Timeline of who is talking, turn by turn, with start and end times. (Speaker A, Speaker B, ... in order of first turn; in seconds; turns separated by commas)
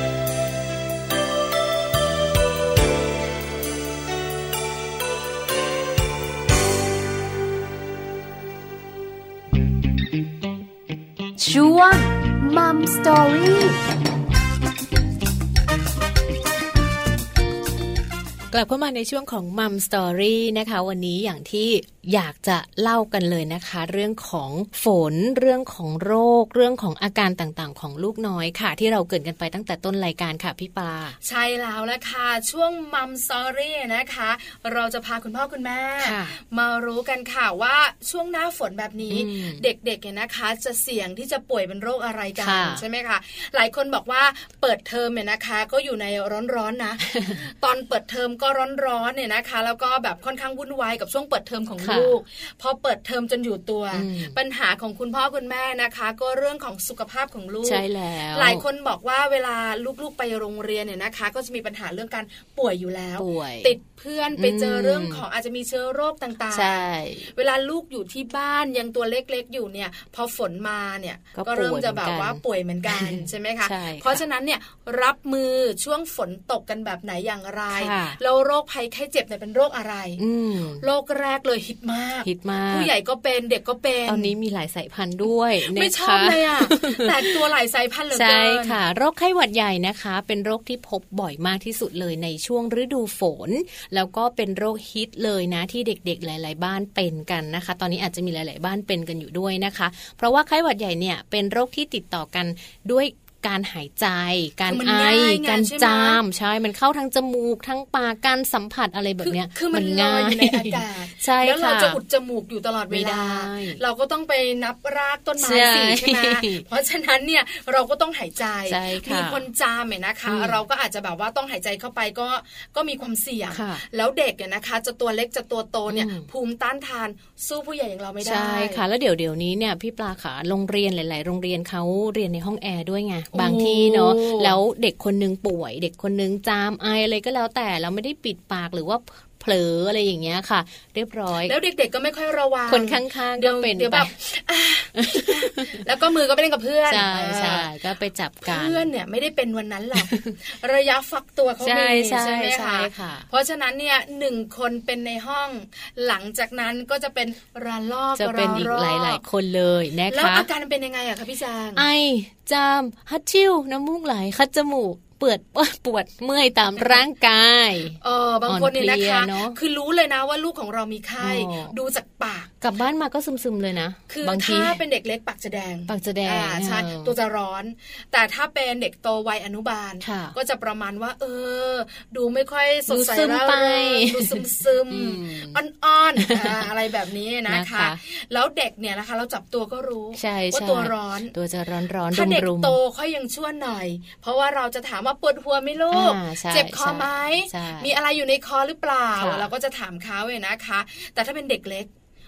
Speaker A: 11.4-13.8, Speaker B: 18.5-31.2, Speaker C: 31.2-80.2, Speaker B: 36.0-36.4, Speaker B: 39.1-39.6, Speaker B: 42.4-42.8, Speaker B: 47.1-47.4, Speaker B: 51.8-52.2, Speaker B: 53.9-54.4, Speaker B: 57.6-58.6, Speaker B: 63.2-63.7, Speaker B: 64.3-65.2, Speaker B: 66.5-67.3, Speaker B: 71.3-74.2, Speaker B: 77.7-78.2, Speaker B: 80.2-80.8, Speaker C: 80.8-84.3, Speaker B: 82.2-82.9, Speaker B: 84.1-87.3, Speaker C: 85.6-88.8, Speaker B: 88.1-112.0, Speaker C: 104.7-106.2, Speaker C: 109.2-128.8, Speaker B: 112.9-113.8, Speaker B: 115.4-116.6, Speaker B: 118.7-119.4, Speaker B: 120.2-120.6, Speaker B: 123.5-123.8, Speaker B: 125.9-126.3, Speaker B: 128.2-141.5, Speaker C: 133.3-134.6, Speaker C: 141.4-147.7, Speaker B: 142.7-144.1, Speaker B: 145.0-145.8, Speaker B: 146.9-148.9, Speaker C: 148.4-159.2, Speaker B: 149.9-150.3, Speaker B: 151.6-153.3, Speaker B: 158.1-160.5, Speaker C: 160.1-161.8, Speaker B: 161.8-169.6, Speaker C: 168.0-172.5, Speaker B: 171.2-171.7, Speaker B: 172.6-174.8, Speaker C: 174.1-191.3, Speaker B: 175.9-177.2, Speaker B: 180.0-180.3, Speaker B: 182.9-185.6, Speaker B: 186.2-186.7, Speaker B: 187.5-188.0, Speaker B: 190.1-192.8, Speaker C: 192.1-201.9, Speaker B: 195.9-197.9, Speaker B: 199.2-199.5